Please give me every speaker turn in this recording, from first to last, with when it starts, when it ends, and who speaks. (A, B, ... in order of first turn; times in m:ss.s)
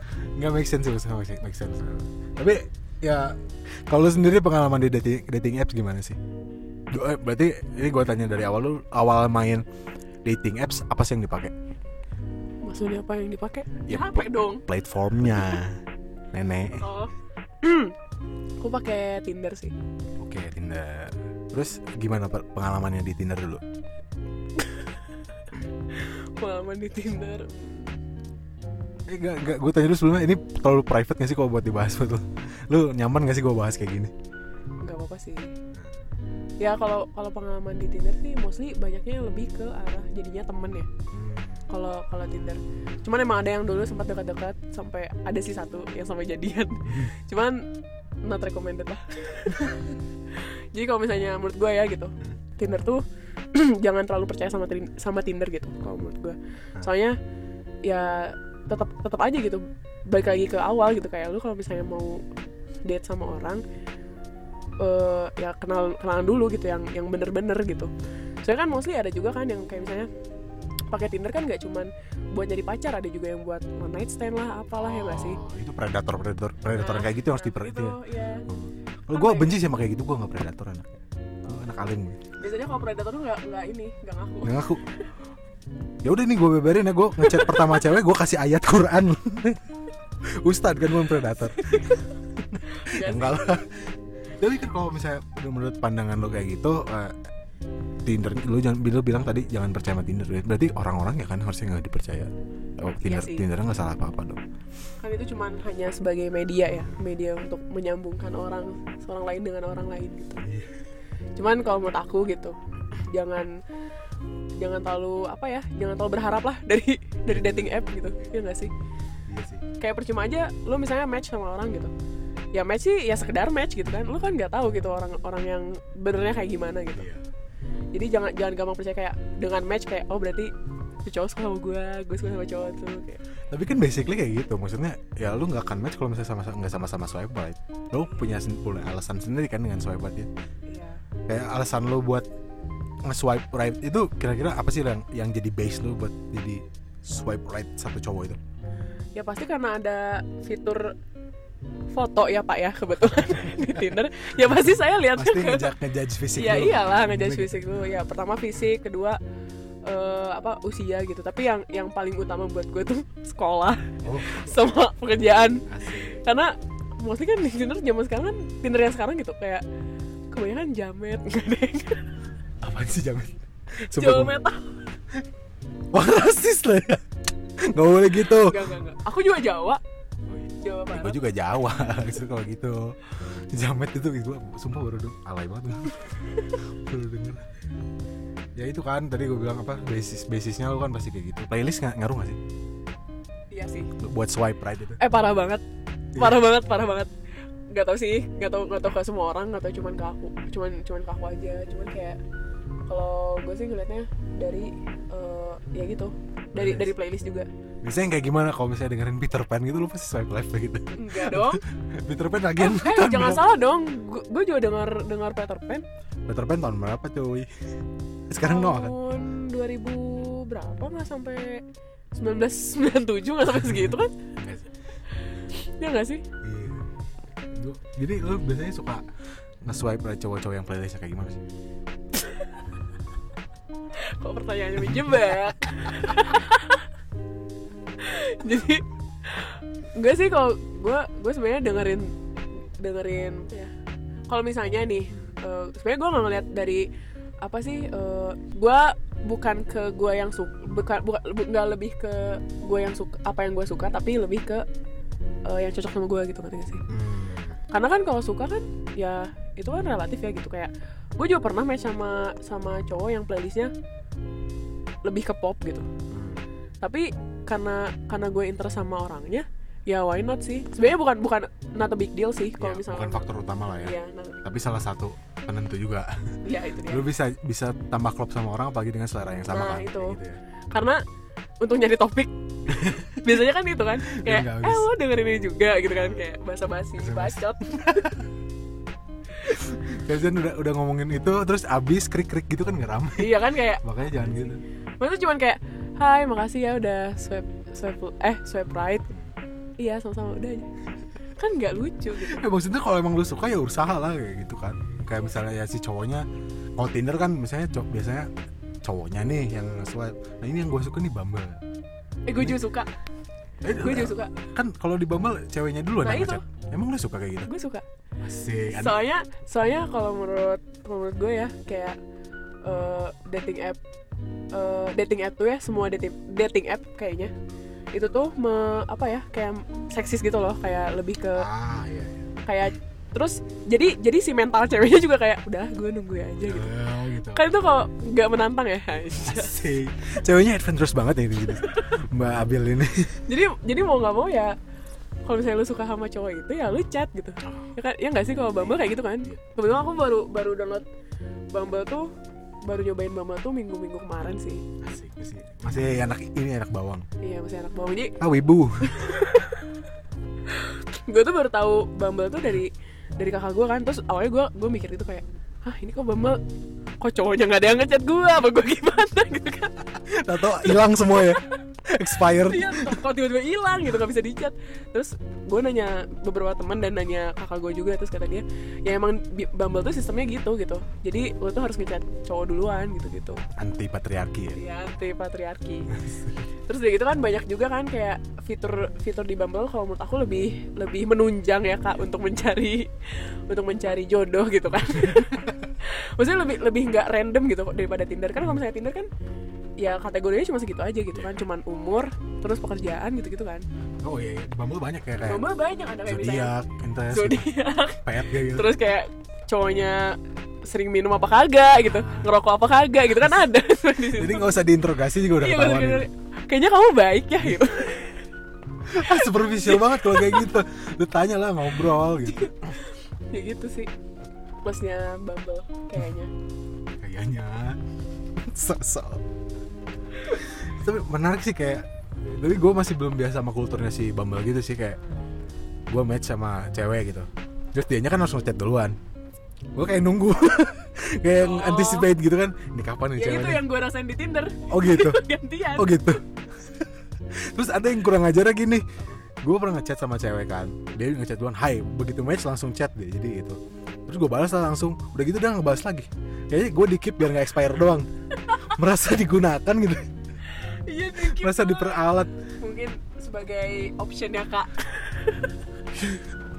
0:00.2-0:06.2 A
0:06.9-0:09.6 A
0:10.2-0:11.5 A
0:12.6-0:14.6 B
0:13.9-0:15.8 A
0:16.3-0:16.9 A
0:16.8-0:17.9 B
0:18.6-0:19.7 B
0:20.2-0:23.6 A
0:24.6-0:25.0 B
0:25.9-0:28.0 B
0:29.0-0:34.1 A
0:34.8-0:35.5 B
0:35.7-0:36.0 A
0:36.6-0:40.9 B
0:41.1-0:41.7 A
0:41.7-0:47.7 B
0:48.2-0:57.2 B
0:57.8-1:02.2 B
1:02.8-1:03.6 B
1:04.8-1:07.9 B
1:08.4-1:10.1 B
1:10.9-1:15.4 B
1:14.8-1:22.2 A
1:16.8-1:18.4 B
1:19.1-1:19.5 B
1:22.4-1:25.1 B
1:24.4-1:24.8 A
1:26.0-1:29.6 A
1:27.2-1:27.7 B
1:30.4-1:37.3 A
1:31.6-1:32.0 B
1:32.7-1:33.6 B
1:38.0-1:44.4 A
1:43.0-1:43.4 B
1:45.0-1:50.4 B
1:50.4-1:50.8 A
1:51.4-1:52.6 B
1:53.1-1:53.5 B
1:54.6-1:58.7 B
1:57.3-1:57.7 A
1:59.3-1:59.6 A
1:59.8-2:01.9 B
2:02.5-2:07.1 B
2:06.9-2:07.2 A
2:07.9-2:10.5 B
2:11.0-2:13.2 B
2:13.5-2:20.3 A
2:20.7-2:21.0 B
2:21.3-2:22.2 A
2:23.0-2:28.4 A
2:29.1-2:30.9 B
2:31.9-2:35.7 B
2:33.1-2:33.7 A
2:34.3-2:37.7 A
2:36.4-2:39.2 B
2:39.8-2:49.6 B
2:44.0-2:44.6 A
2:45.7-2:46.2 A
2:50.3-2:52.1 B
2:52.6-2:54.4 A
2:53.9-2:54.8 B
2:55.9-2:57.0 A
2:57.6-2:58.6 A
2:58.3-2:59.8 B
3:00.3-3:07.5 A
3:00.6-3:01.2 B
3:08.5-3:12.4 A
3:13.5-3:13.9 B
3:14.0-3:15.0 A
3:15.0-3:15.6 B
3:16.1-3:16.4 A
3:16.2-3:17.1 B
3:17.7-3:22.2 B
3:22.9-3:27.5 B
3:26.5-3:26.9 A
3:27.8-3:33.4 A
3:30.9-3:31.6 B
3:32.6-3:35.8 B
3:36.3-3:37.5 A
3:38.3-3:39.0 A
3:38.4-3:41.6 B
3:42.1-3:44.1 B
3:43.6-3:44.7 A
3:45.6-3:46.2 B
3:46.4-3:46.9 A
3:47.5-3:49.1 A
3:49.6-3:51.4 A
3:52.1-3:52.5 B
3:53.9-3:56.9 B
3:54.8-3:55.3 A
3:58.0-4:02.1 B
4:02.8-4:03.7 B
4:04.3-4:06.9 B
4:07.4-4:14.6 B
4:15.4-4:16.8 B
4:16.9-4:17.6 A
4:17.7-4:23.7 B
4:25.0-4:25.9 B
4:26.1-4:26.5 A
4:26.8-4:33.3 B
4:32.6-4:40.4 A
4:33.8-4:34.4 B
4:36.4-4:37.0 B
4:39.5-4:40.2 B
4:40.7-4:41.0 B
4:41.6-4:48.1 B
4:42.7-4:43.4 A
4:44.1-4:44.9 A
4:45.9-4:46.2 A
4:47.0-4:48.1 A
4:49.4-4:54.6 A
4:53.2-4:53.8 B
4:55.0-4:59.1 B
4:59.1-4:59.3 A
4:59.8-5:00.7 B
5:01.4-5:02.4 B
5:02.2-5:08.3 A
5:08.8-5:11.6 A
5:12.3-5:12.9 B
5:13.6-5:17.5 A
5:13.8-5:14.3 B
5:16.0-5:16.4 B
5:17.4-5:17.8 B
5:18.2-5:19.0 A
5:18.7-5:22.0 B
5:22.6-5:23.8 B
5:24.5-5:27.3 B
5:27.9-5:31.5 B
5:31.4-5:32.8 A
5:32.4-5:36.7 B
5:36.4-5:37.6 A
5:37.3-5:39.6 B
5:39.1-5:43.2 A
5:41.6-5:41.9 B
5:43.3-5:44.6 B
5:45.2-5:50.8 B
5:47.4-5:47.7 A
5:51.5-5:52.1 B
5:52.6-5:54.6 B
5:54.8-5:57.0 A
5:57.2-5:58.2 B
5:58.2-5:59.1 A
5:58.9-5:59.6 B
6:00.5-6:06.4 B
6:07.0-6:09.8 B
6:09.9-6:13.0 A
6:10.6-6:11.5 B
6:12.2-6:23.4 B
6:23.6-6:24.6 A
6:24.5-6:25.9 B
6:25.9-6:26.5 A
6:26.6-6:39.1 B
6:35.0-6:35.6 A
6:39.8-6:43.6 B
6:44.0-6:45.4 A
6:45.3-6:46.5 B
6:46.0-6:48.7 A
6:47.1-6:54.5 B
6:51.8-6:52.3 A
6:54.1-6:56.1 A
6:55.3-6:58.2 B
6:58.8-7:02.8 A
6:59.0-7:00.5 B
7:03.3-7:03.9 B
7:04.6-7:06.3 B
7:07.0-7:07.8 A
7:08.4-7:09.2 A
7:10.3-7:15.0 A
7:15.9-7:19.0 A
7:19.7-7:23.7 A
7:21.4-7:22.1 B
7:23.2-7:26.2 B
7:24.7-7:25.2 A
7:25.7-7:28.8 A
7:29.4-7:38.1 A
7:38.7-7:40.1 A
7:40.5-7:42.0 B
7:41.1-7:42.3 A
7:42.6-7:45.5 B
7:45.9-7:46.3 A